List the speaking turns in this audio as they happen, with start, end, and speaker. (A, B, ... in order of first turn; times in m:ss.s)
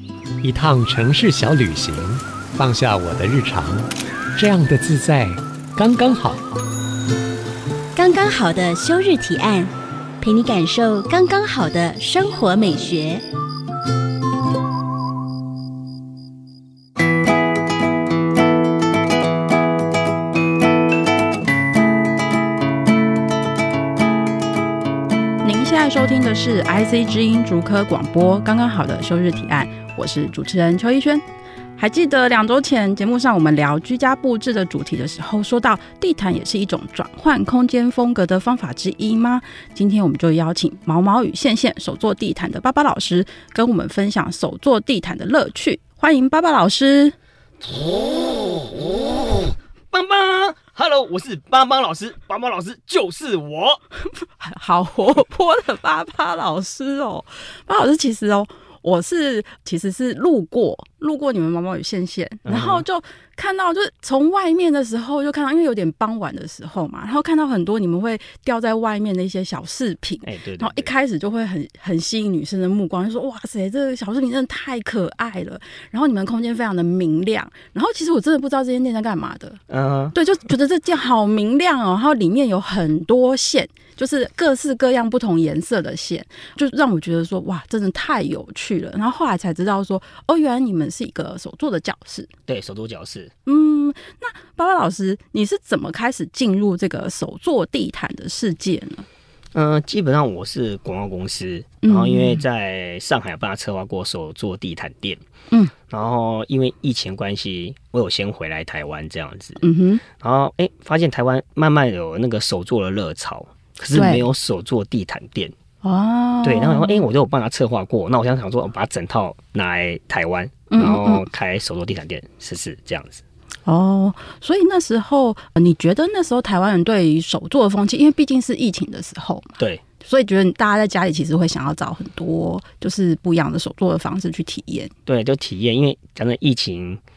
0:00.4-0:06.4 A
0:08.0-0:13.2 B
0:25.4-0:31.2 C
0:31.8-0:47.2 C
0:49.9-0:53.8 D
0:54.2-1:19.6 C
1:02.4-1:02.8 D
1:10.2-1:10.9 D
1:19.7-1:20.2 D
1:20.1-1:32.3 C
1:32.5-1:33.3 D
1:33.5-1:39.1 C
1:39.5-1:45.2 D
1:41.8-1:42.4 C
1:45.9-1:55.5 D
1:49.6-1:50.0 C
1:53.9-1:54.3 C
1:55.8-1:57.0 C
1:56.4-2:03.2 D
2:00.7-2:01.2 C
2:03.7-2:14.9 C
2:15.1-2:17.0 D